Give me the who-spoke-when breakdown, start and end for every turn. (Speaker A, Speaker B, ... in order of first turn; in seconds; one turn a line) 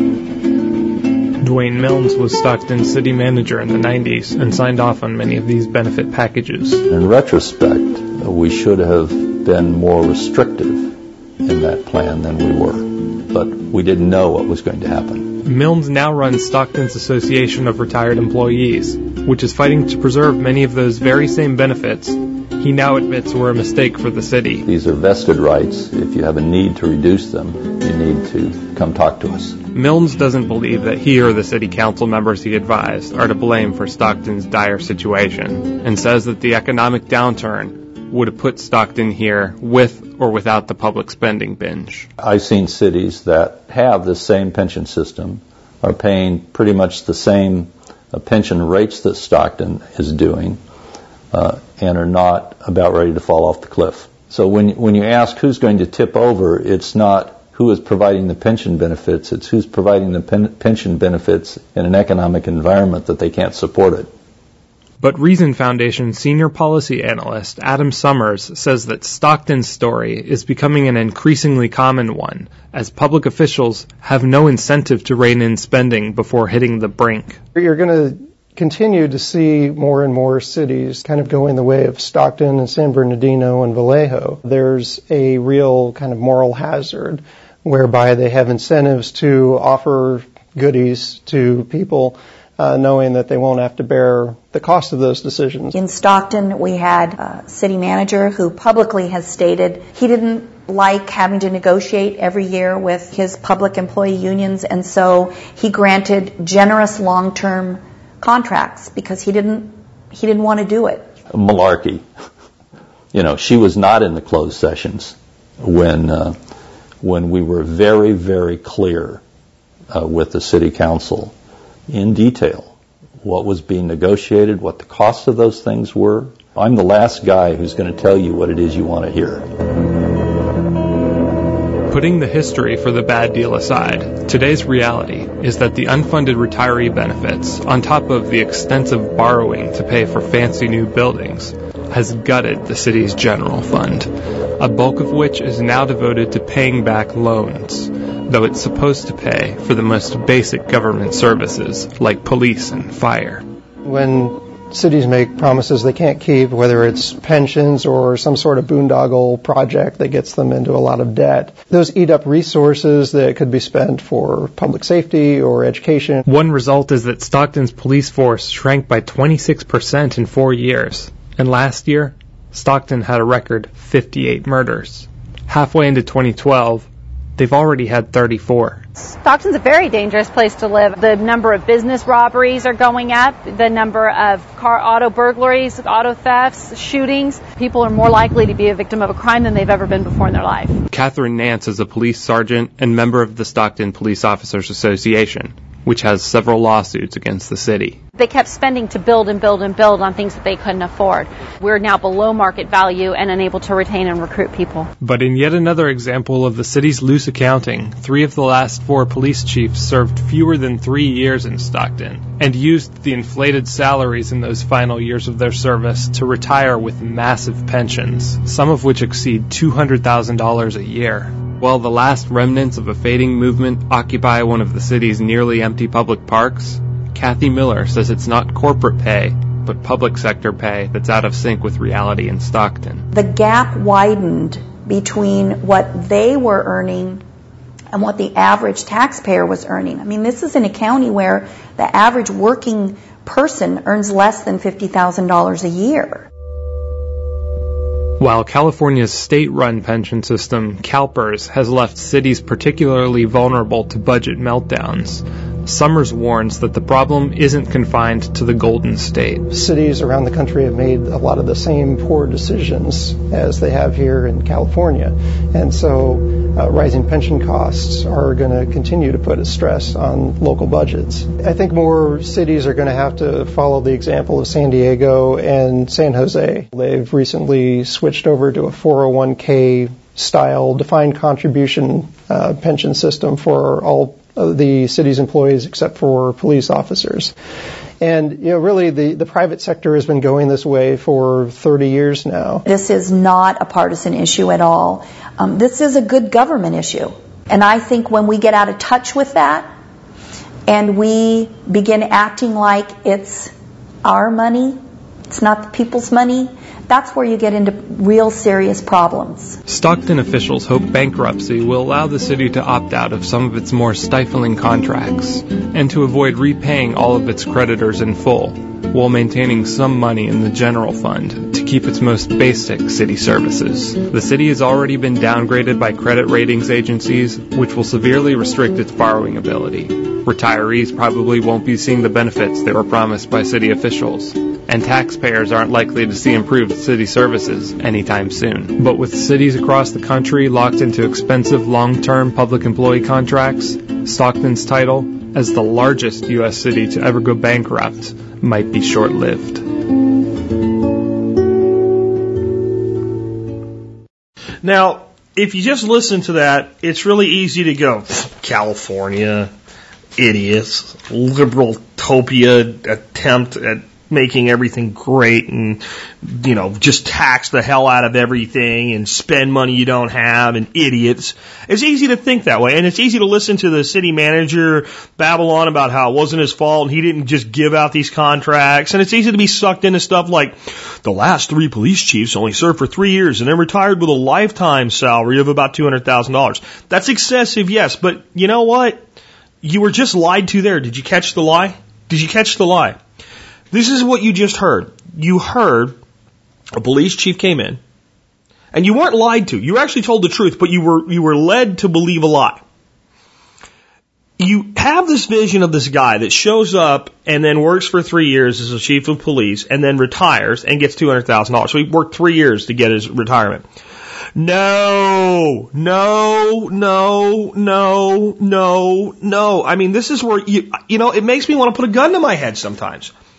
Speaker A: 1.4-6.8
Speaker B: 6.9-15.4
Speaker A: 15.4-24.6
Speaker B: 24.6-29.6
Speaker A: 29.7-42.1
Speaker B: 42.2-50.6
Speaker B: 51.3-64.1
Speaker A: 65.0-77.4
Speaker C: 77.5-95.7
Speaker D: 95.7-111.1
Speaker B: 111.3-112.0
Speaker B: 113.1-116.4
Speaker B: 117.0-119.2
Speaker B: 119.9-121.3
Speaker B: 121.9-129.5
Speaker A: 131.9-153.4
Speaker C: 153.8-166.2
Speaker A: 166.2-178.8
Speaker E: 179.0-190.7
Speaker A: 190.9-198.0
Speaker E: 198.2-204.9
Speaker A: 205.0-233.1
Speaker D: 233.1-237.2
Speaker D: 237.9-246.3
Speaker A: 248.2-259.5
Speaker C: 259.5-287.3
Speaker C: 288.0-292.6
Speaker D: 292.7-299.7
Speaker D: 300.7-303.5
Speaker D: 304.0-309.6
Speaker A: 309.7-349.6
Speaker F: 354.6-359.5
Speaker F: 360.2-389.0
Speaker F: 389.6-393.0
Speaker F: 393.7-396.0
Speaker F: 396.7-397.8
Speaker F: 398.7-402.6
Speaker F: 404.4-413.6
Speaker F: 414.4-423.1